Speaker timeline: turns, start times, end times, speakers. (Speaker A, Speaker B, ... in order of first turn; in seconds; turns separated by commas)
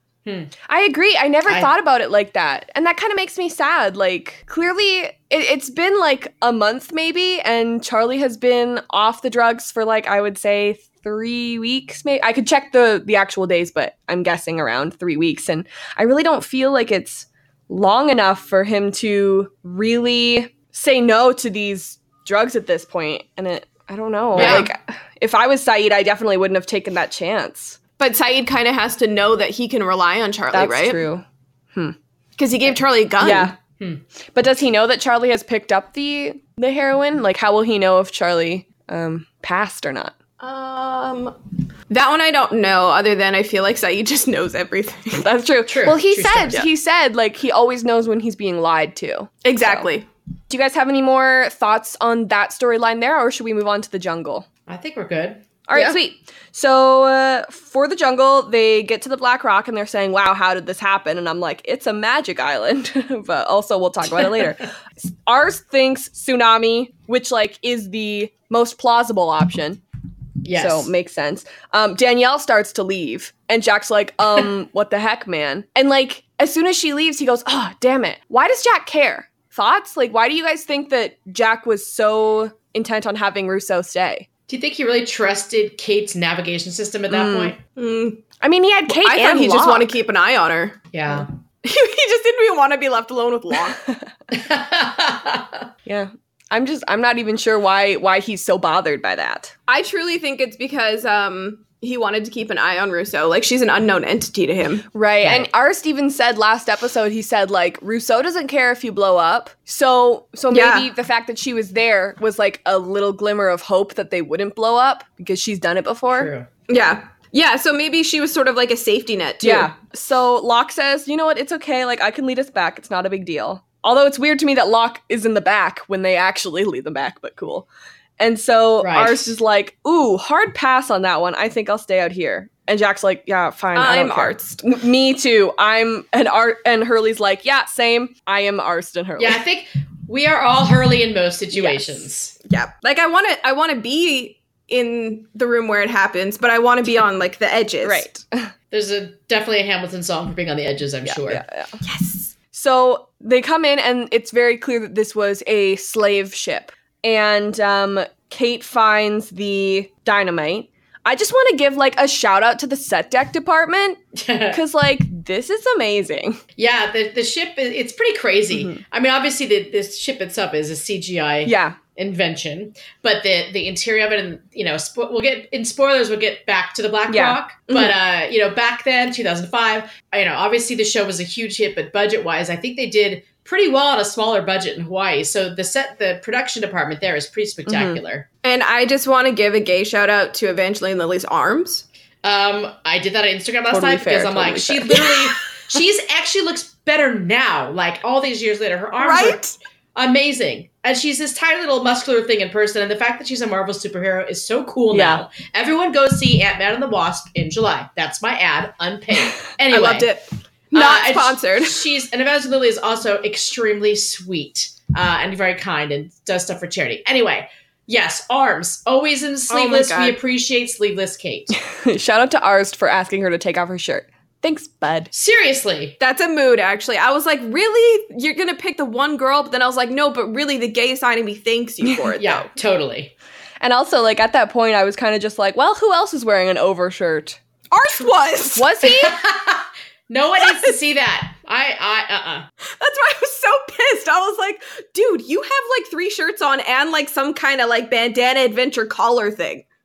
Speaker A: 0.2-0.5, Speaker B: 0.7-27.8, Speaker C: 24.3-24.7, Speaker A: 24.3-24.7, Speaker C: 28.0-31.0, Speaker B: 30.5-31.9, Speaker C: 32.4-33.5, Speaker B: 33.2-33.5, Speaker B: 34.3-40.1, Speaker C: 40.4-41.4, Speaker C: 41.9-45.3, Speaker B: 45.2-49.9, Speaker A: 45.7-46.6, Speaker C: 49.4-50.0, Speaker B: 50.5-54.5, Speaker A: 54.7-55.4, Speaker B: 55.7-69.8, Speaker C: 55.7-56.0, Speaker A: 70.4-70.9, Speaker B: 70.5-84.2, Speaker A: 84.5-87.6, Speaker B: 87.1-87.5, Speaker C: 87.8-88.2, Speaker B: 88.4-89.9, Speaker C: 88.9-90.8, Speaker A: 90.9-91.3, Speaker C: 91.6-93.8, Speaker A: 94.3-95.6, Speaker B: 95.8-99.5, Speaker C: 99.7-104.8, Speaker B: 104.9-116.3, Speaker A: 105.2-105.5, Speaker C: 110.5-110.9, Speaker A: 116.1-116.5, Speaker C: 116.7-119.7, Speaker B: 119.4-127.7, Speaker B: 128.2-139.4, Speaker A: 128.8-129.3, Speaker C: 133.7-134.6, Speaker A: 139.2-142.3, Speaker B: 141.5-142.0, Speaker C: 142.4-148.1, Speaker B: 147.8-148.5, Speaker A: 148.7-151.4, Speaker B: 151.0-164.0, Speaker C: 151.8-152.3, Speaker A: 164.1-164.6, Speaker B: 164.5-166.4, Speaker A: 166.6-188.2, Speaker B: 168.5-168.8, Speaker B: 171.4-171.8, Speaker B: 177.1-177.4, Speaker B: 187.7-188.0, Speaker C: 188.4-191.8, Speaker A: 192.2-199.4, Speaker C: 193.7-195.3, Speaker B: 193.7-194.9, Speaker C: 199.0-199.5, Speaker A: 199.9-210.1, Speaker B: 204.9-205.2, Speaker C: 209.7-211.8, Speaker A: 210.7-221.5, Speaker C: 219.5-220.2, Speaker B: 221.5-225.1, Speaker A: 225.1-225.9, Speaker C: 226.0-232.5, Speaker A: 232.2-233.1, Speaker B: 233.6-237.4, Speaker C: 237.7-238.8, Speaker B: 238.6-239.2, Speaker A: 238.8-242.5, Speaker C: 240.5-240.7, Speaker C: 242.7-249.6